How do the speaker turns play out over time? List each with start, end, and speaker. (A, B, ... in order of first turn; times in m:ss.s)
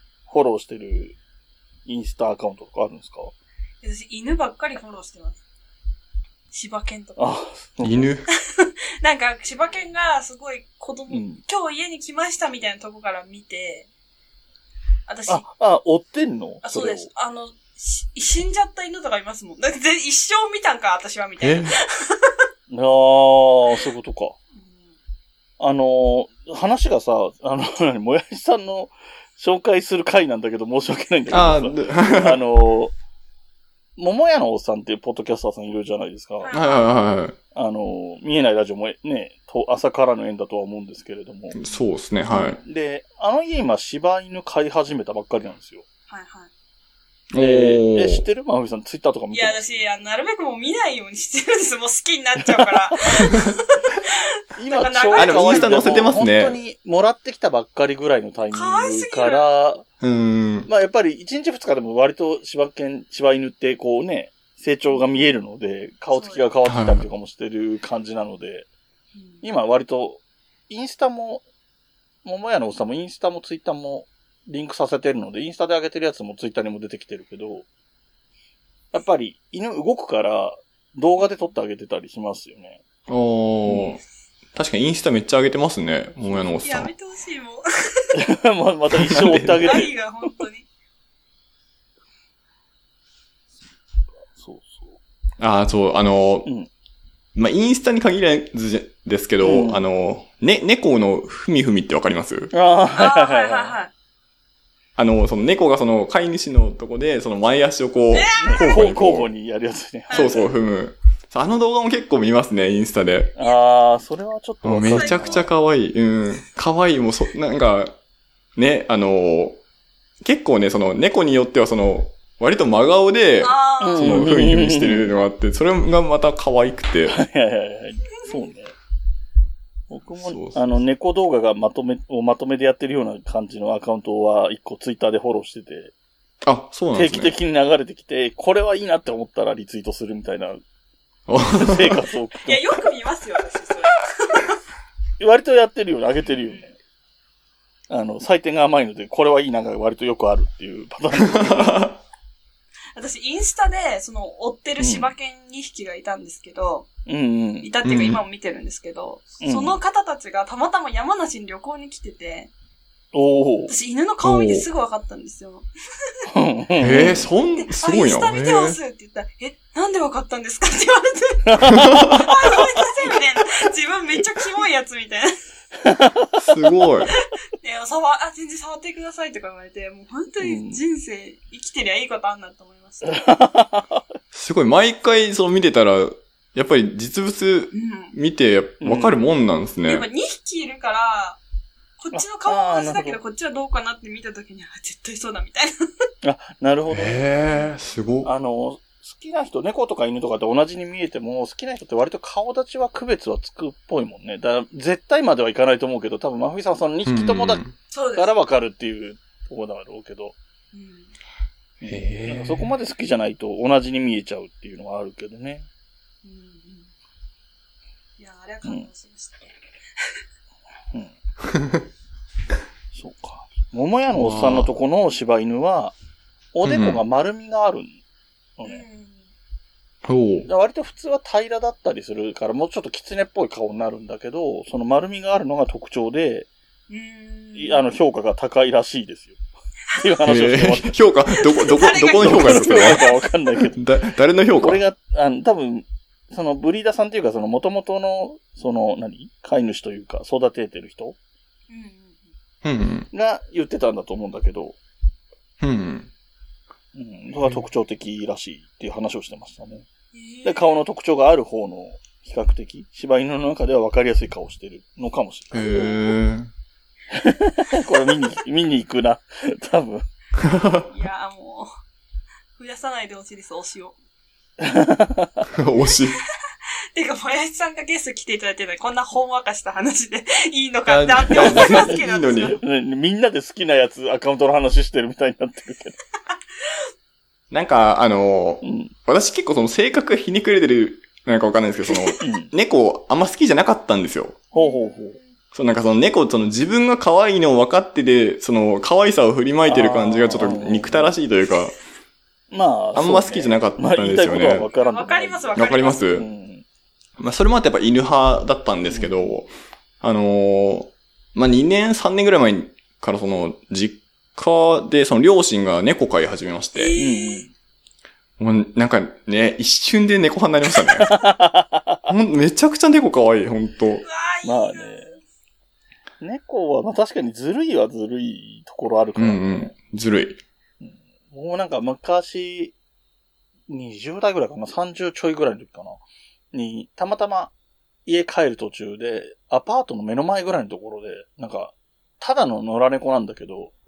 0:00.3-0:01.2 A
0:01.8-0:03.3 A
0:03.8-0:05.4 B
0:06.5-0:07.4 B
0:07.2-0:08.1 A
0:07.8-0:08.3 C
0:08.5-0:13.9 B
0:11.1-0:11.4 A
0:15.1-0:15.4 B
0:15.3-0:17.1 A
0:16.6-0:22.4 B
0:21.4-0:21.7 C
0:22.7-0:24.4 A
0:24.5-0:24.8 B
0:25.6-0:32.9 A
0:31.3-0:32.4 C
0:34.0-0:36.5 A
0:36.4-0:37.0 B
0:36.5-0:37.4 C
0:37.5-0:41.6 A
0:41.5-0:42.6 C
0:42.3-0:45.8 A
0:46.1-0:46.5 B
0:47.3-0:48.2 C
0:47.4-0:49.6 A
0:49.3-0:56.1 B
0:52.4-0:53.0 A
0:54.6-0:59.8 A
0:55.2-0:56.6 C
0:58.5-0:59.4 B
1:00.0-1:00.7 C
1:00.7-1:08.7 A
1:06.1-1:06.4 B
1:06.7-1:07.0 C
1:09.1-1:09.4 B
1:09.4-1:11.4 A
1:12.2-1:17.6 A
1:18.9-1:22.8 A
1:23.1-1:24.0 C
1:24.5-1:26.9 C
1:26.6-1:28.2 B
1:28.1-1:29.9 A
1:28.9-1:29.8 C
1:29.6-1:30.6 B
1:34.2-1:35.0 A
1:35.4-1:36.5 C
1:37.3-1:42.5 C
1:39.4-1:39.8 A
1:42.5-1:43.8 A
1:43.0-1:43.9 B
1:45.0-1:49.3 C
1:48.1-1:48.8 B
1:48.4-1:50.5 A
1:50.1-1:50.5 B
1:50.1-1:53.3 C
1:53.4-1:55.4 A
1:54.6-1:58.0 C
1:54.9-1:55.5 B
1:58.6-1:59.6 C
2:00.2-2:07.2 C
2:03.4-2:04.2 B
2:03.8-2:05.1 A
2:07.1-2:08.7 A
2:09.9-2:15.9 A
2:10.2-2:10.8 C
2:16.4-2:17.3 C
2:16.9-2:20.6 A
2:21.3-2:22.0 C
2:21.4-2:22.8 A
2:22.4-2:24.6 B
2:25.2-2:26.7 A
2:27.9-2:31.9 A
2:31.2-2:32.0 C
2:32.9-2:36.9 B
2:34.8-2:35.1 A
2:37.1-2:37.7 A
2:37.6-2:42.5 B
2:37.8-2:38.2 C
2:39.4-2:39.8 A
2:43.1-2:43.7 A
2:43.7-2:45.7 B
2:44.2-2:44.7 C
2:46.3-2:47.2 A
2:46.8-2:48.8 C
2:47.6-2:55.4 B
2:51.5-2:52.8 A
2:51.7-2:52.2 C
2:55.8-2:56.4 A
2:56.4-2:57.1 C
2:57.6-3:03.2 B
3:00.4-3:00.8 A
3:03.0-3:04.0 A
3:04.3-3:10.1 C
3:07.7-3:08.1 B
3:08.8-3:09.2 A
3:09.8-3:11.4 B
3:12.0-3:15.7 B
3:12.1-3:13.2 A
3:16.2-3:17.2 A
3:16.9-3:18.3 C
3:18.2-3:27.6 A
3:27.0-3:27.8 C
3:27.9-3:28.3 B
3:28.2-3:30.3 A
3:30.7-3:31.1 B
3:31.8-3:35.7 A
3:31.8-3:32.7 C
3:36.2-3:36.9 B
3:38.2-3:40.1 B
3:41.5-3:41.8 C
3:42.9-3:46.0 A
3:44.1-3:44.7 C
3:46.5-3:48.0 A
3:46.6-3:47.0 C
3:48.6-3:48.8 A
3:48.6-3:49.2 B
3:50.0-3:50.5 C
3:50.4-3:56.5 A
3:56.9-3:57.8 B
3:57.5-3:59.4 A
3:59.9-4:00.9 A
4:00.2-4:03.1 C
4:01.5-4:03.2 B
4:02.2-4:03.8 A
4:03.7-4:04.8 C
4:04.6-4:11.2 A
4:11.7-4:12.3 B
4:12.6-4:13.1 C
4:13.1-4:14.8 A
4:15.6-4:16.1 C
4:16.9-4:19.9 A
4:20.1-4:20.8 B
4:20.4-4:25.7 A
4:25.5-4:26.5 C
4:25.7-4:26.0 B
4:27.1-4:30.0 A
4:30.4-4:30.9 C
4:30.9-4:31.7 B
4:32.6-4:34.0 B
4:34.6-4:35.4 A
4:35.5-4:36.2 C
4:36.9-4:42.6 B
4:40.9-4:42.6 C
4:41.3-4:42.0 A
4:42.5-4:46.0 A
4:47.5-4:54.4 C
4:48.6-4:48.9 A
4:51.9-4:52.2 B
4:52.2-4:52.5 A
4:54.5-4:55.2 A
4:54.5-4:55.2 B
4:55.5-5:01.8 C
4:59.6-5:01.1 A
5:02.5-5:06.6 A
5:02.9-5:04.7 C
5:04.8-5:06.0 B
5:05.5-5:06.2 C
5:07.2-5:17.0 C
5:16.8-5:17.5 B
5:17.0-5:17.5 A
5:18.4-5:21.1 C
5:21.0-5:22.0 A
5:22.1-5:24.0 C
5:24.0-5:25.2 B
5:24.4-5:25.1 A
5:26.2-5:29.7 A
5:29.2-5:30.4 C
5:30.8-5:32.7 A
5:33.7-5:36.0 A
5:36.5-5:37.5 A
5:38.0-5:43.7 A